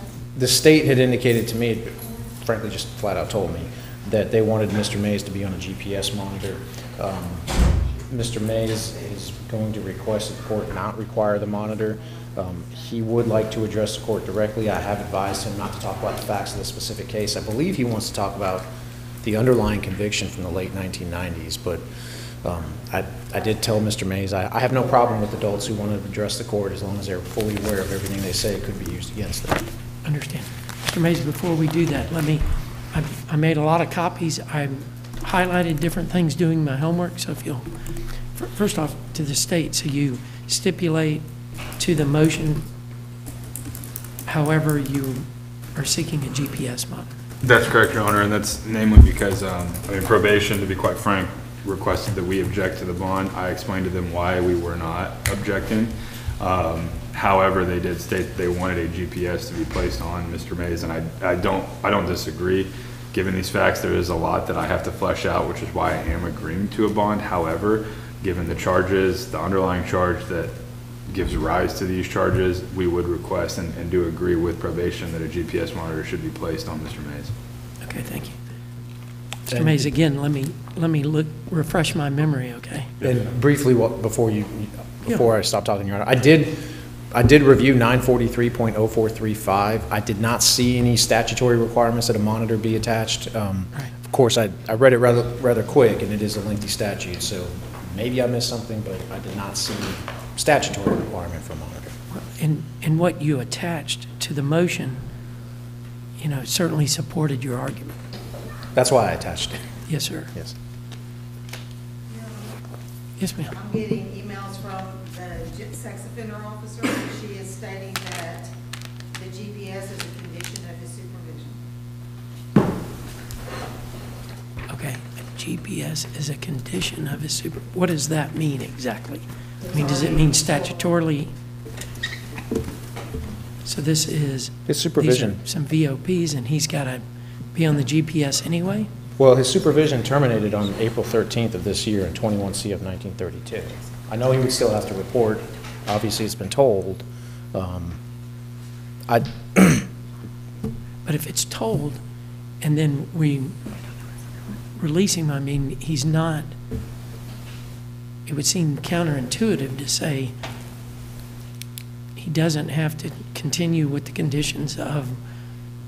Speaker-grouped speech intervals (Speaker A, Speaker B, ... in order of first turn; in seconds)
Speaker A: 0.3-18.7, 19.2-21.8, 22.4-29.7, 79.5-79.9, 83.0-101.9, 108.7-109.6, 134.7-135.4, 139.2-148.0, 149.1-149.9
Speaker B: 30.0-37.7, 38.3-42.7, 44.3-47.1, 77.8-78.4, 79.5-82.9, 102.1-105.0, 106.2-107.9, 109.9-110.3, 113.2-113.5, 124.7-131.3, 133.6-138.9, 151.0-152.0, 152.6-153.6, 154.8-156.5, 158.2-160.3, 162.2-165.2
Speaker C: 47.4-70.5, 71.1-77.3
Speaker D: 112.1-112.5, 113.5-118.5, 119.1-121.6